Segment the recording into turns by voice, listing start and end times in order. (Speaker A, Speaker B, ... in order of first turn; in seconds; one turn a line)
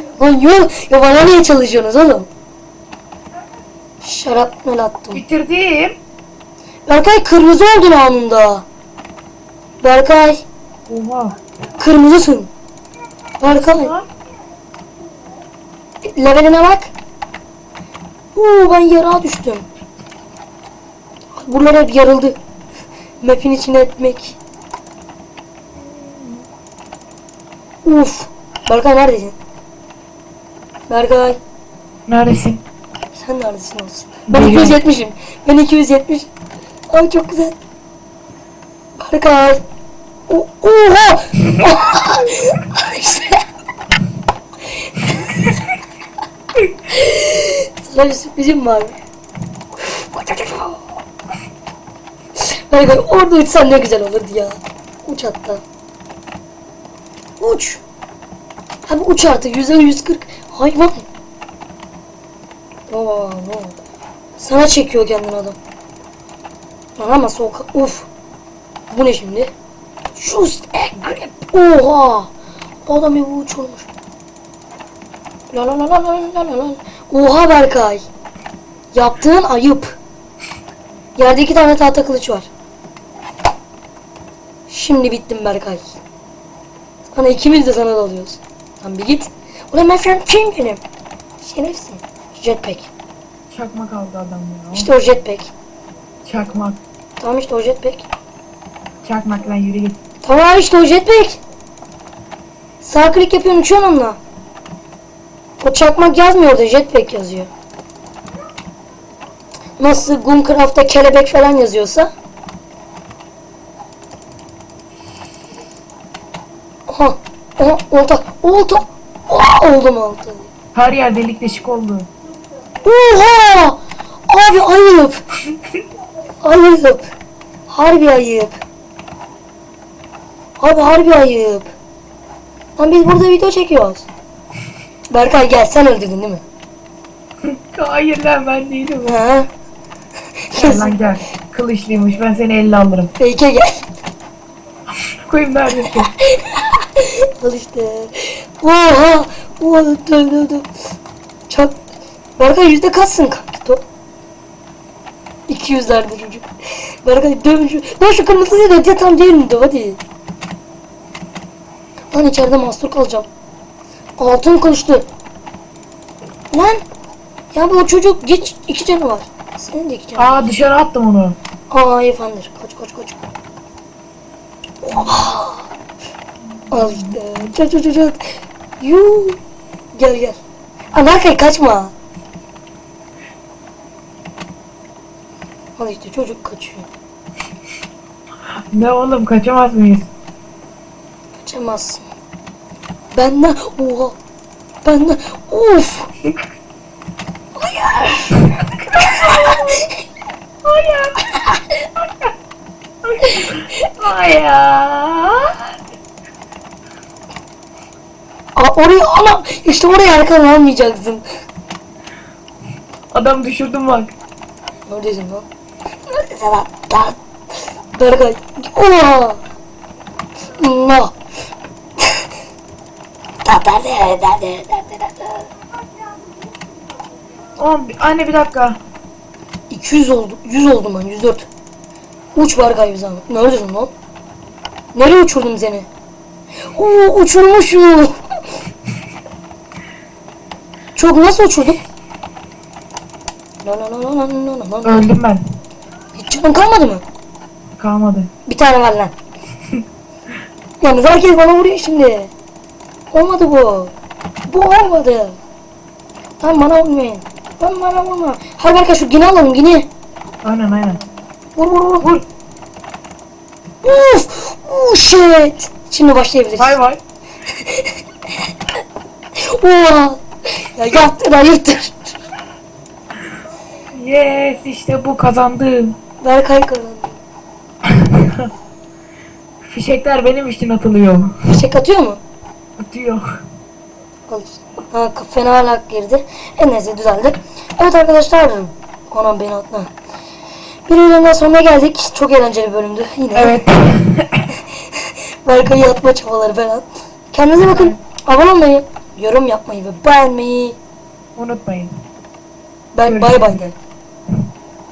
Speaker A: 0.2-2.3
Speaker A: 4.0-5.2
Speaker B: 5.1-6.0
Speaker A: 6.9-8.7
Speaker A: 9.8-10.4
Speaker B: 10.9-11.4
Speaker A: 11.8-12.5
Speaker A: 13.4-13.9
Speaker B: 13.5-14.1
Speaker A: 16.0-16.9
Speaker A: 18.4-19.6
Speaker A: 21.4-22.4
Speaker A: 23.2-24.4
Speaker B: 25.8-26.4
Speaker A: 27.9-29.4
Speaker A: 30.9-31.4
Speaker B: 32.1-32.6
Speaker A: 33.1-36.3
Speaker B: 34.3-34.8
Speaker A: 36.9-37.6
Speaker A: 39.0-39.6
Speaker A: 40.3-43.4
Speaker A: 45.0-45.5
Speaker A: 46.7-49.0
Speaker A: 49.8-50.8
Speaker A: 52.4-55.6
Speaker A: 57.4-57.8
Speaker A: 58.9-61.0
Speaker A: 62.9-63.8
Speaker A: 64.4-65.6
Speaker A: 67.0-68.1
Speaker A: 68.9-69.5
Speaker A: 70.2-72.3
Speaker A: 72.9-73.9
Speaker A: 75.5-78.0
Speaker A: 78.9-80.0
Speaker A: 81.2-82.5
Speaker A: 84.7-85.9
Speaker A: 87.1-90.8
Speaker A: 91.4-92.9
Speaker B: 93.5-94.9
Speaker A: 94.7-95.5
Speaker B: 96.2-96.8
Speaker A: 97.2-98.1
Speaker B: 99.0-100.0
Speaker A: 100.2-101.4
Speaker A: 102.8-104.2
Speaker A: 105.6-107.5
Speaker A: 109.8-112.1
Speaker A: 116.9-120.5
Speaker B: 120.8-122.1
Speaker A: 122.8-125.2
Speaker A: 126.4-127.0
Speaker A: 127.7-128.6
Speaker A: 130.6-131.7
Speaker A: 132.8-134.1
Speaker A: 135.1-136.4
Speaker B: 137.5-139.2
Speaker A: 139.1-139.5
Speaker A: 140.5-141.0
Speaker B: 140.5-143.1
Speaker A: 143.2-143.9
Speaker B: 145.3-146.1
Speaker A: 145.8-150.7
Speaker A: 151.5-151.8
Speaker A: 152.4-153.8
Speaker A: 155.5-156.5
Speaker A: 157.0-160.0
Speaker A: 162.1-163.3
Speaker A: 164.2-165.1
Speaker A: 166.5-166.8
Speaker A: 167.5-170.5
Speaker B: 170.2-171.4
Speaker A: 171.7-173.2
Speaker A: 174.8-175.7
Speaker A: 176.7-179.4
Speaker A: 179.9-180.4
Speaker A: 180.9-181.9
Speaker A: 185.8-186.9
Speaker B: 188.7-190.1
Speaker A: 191.4-192.0
Speaker A: 193.1-194.2
Speaker A: 194.8-196.1
Speaker A: 197.6-199.6
Speaker B: 198.8-199.8
Speaker B: 200.7-201.2
Speaker B: 202.0-202.3
Speaker B: 203.0-205.7
Speaker A: 208.6-211.2
Speaker B: 213.1-214.1
Speaker A: 214.9-215.4
Speaker A: 216.1-217.2
Speaker A: 217.9-219.4
Speaker A: 220.6-221.2
Speaker A: 223.4-225.5
Speaker B: 227.6-228.8
Speaker A: 229.7-231.5
Speaker A: 232.3-233.9
Speaker A: 234.9-235.9
Speaker A: 236.7-238.1
Speaker A: 241.0-241.8
Speaker A: 243.6-245.1
Speaker B: 244.8-245.4
Speaker A: 246.2-247.0
Speaker B: 247.8-248.3
Speaker A: 248.5-249.1
Speaker A: 250.8-252.3
Speaker A: 253.1-253.9
Speaker A: 254.5-255.4
Speaker A: 256.4-259.9
Speaker B: 260.4-261.0
Speaker A: 261.6-262.1
Speaker A: 263.8-266.8
Speaker B: 266.6-267.0
Speaker A: 267.6-267.9
Speaker A: 269.4-272.1
Speaker B: 273.9-275.9
Speaker A: 276.2-277.2
Speaker B: 277.9-278.5
Speaker B: 279.7-281.4
Speaker A: 281.5-282.2
Speaker B: 282.8-283.2
Speaker A: 284.3-289.9
Speaker A: 290.9-293.6
Speaker B: 293.3-294.5
Speaker A: 295.0-300.8
Speaker B: 297.6-298.0
Speaker B: 301.4-301.9
Speaker A: 302.9-303.7
Speaker B: 303.0-303.7